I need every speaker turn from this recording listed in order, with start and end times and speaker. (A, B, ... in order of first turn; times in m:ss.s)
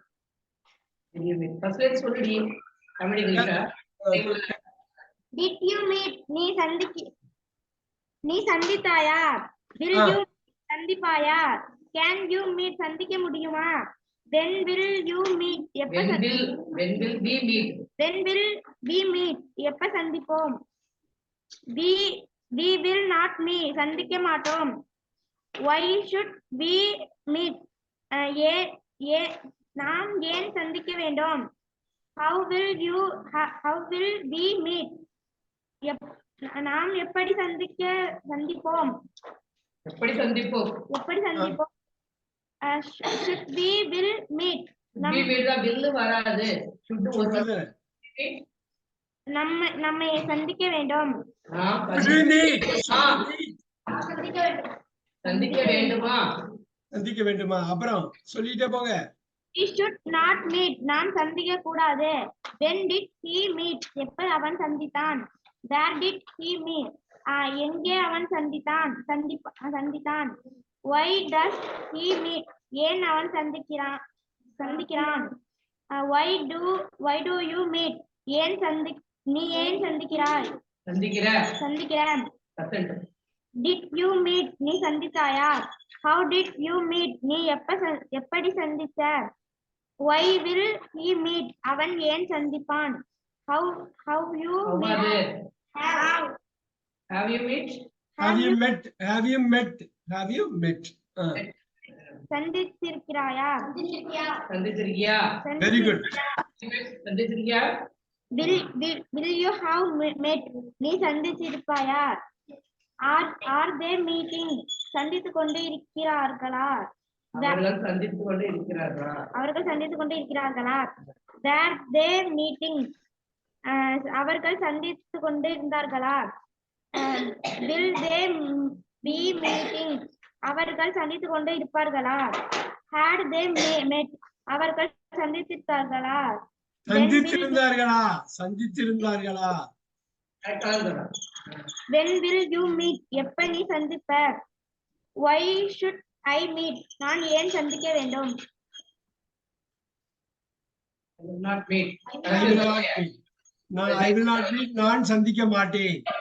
0:01.1-0:02.4 A
0:03.0-0:03.6 A
0:04.0-0:04.3 B
0:04.1-0:04.4 A
0:05.3-0:07.0 C
0:08.2-0:09.2 C
0:09.8-0:11.4 C
0:09.9-0:10.2 B
0:11.9-0:13.7 C
0:14.3-0:16.4 C
0:15.9-0:17.8 A
0:18.0-0:20.5 C
0:21.8-0:24.7 C
0:25.7-0:27.6 C
0:28.2-0:31.4 C
0:32.2-0:34.9 C
0:36.6-0:38.9 C
0:39.9-0:40.8 A
0:40.9-0:41.7 C
0:42.7-0:45.3 C
0:45.0-0:47.5 A
0:47.2-0:47.7 B
0:48.0-0:48.4 A
0:49.3-0:51.1 C
0:51.5-0:53.2 A
0:51.9-0:53.5 B
0:53.9-0:54.6 C
0:55.2-0:56.2 A
0:55.2-0:56.0 C
0:56.9-0:59.0 B
0:59.5-1:10.3 C
1:10.9-1:14.0 C
1:14.6-1:15.3 C
1:16.0-1:20.5 C
1:20.9-1:21.4 A
1:21.6-1:22.2 C
1:22.6-1:23.0 A
1:23.6-1:25.5 C
1:26.0-1:29.2 C
1:30.0-1:33.0 C
1:33.5-1:35.2 C
1:34.6-1:35.3 A
1:35.8-1:36.3 C
1:37.1-1:37.8 A
1:38.2-1:38.6 C
1:38.2-1:41.4 B
1:41.3-1:42.0 A
1:42.3-1:44.3 C
1:44.5-1:45.2 A
1:45.4-1:46.0 C
1:45.6-1:46.1 B
1:46.6-1:47.7 A
1:48.4-1:52.0 C
1:53.1-1:56.7 C
1:57.4-1:59.2 A
1:59.3-2:00.9 C
2:01.4-2:02.9 C
2:03.7-2:06.2 C
2:06.9-2:10.0 C
2:10.5-2:12.2 C
2:12.9-2:16.2 C
2:16.9-2:19.6 B
2:16.9-2:17.6 C
2:20.4-2:21.1 A
2:21.9-2:24.3 C
2:25.2-2:28.3 C
2:31.2-2:32.9 A
2:32.3-2:33.2 B
2:33.7-2:36.0 B
2:33.9-2:34.3 A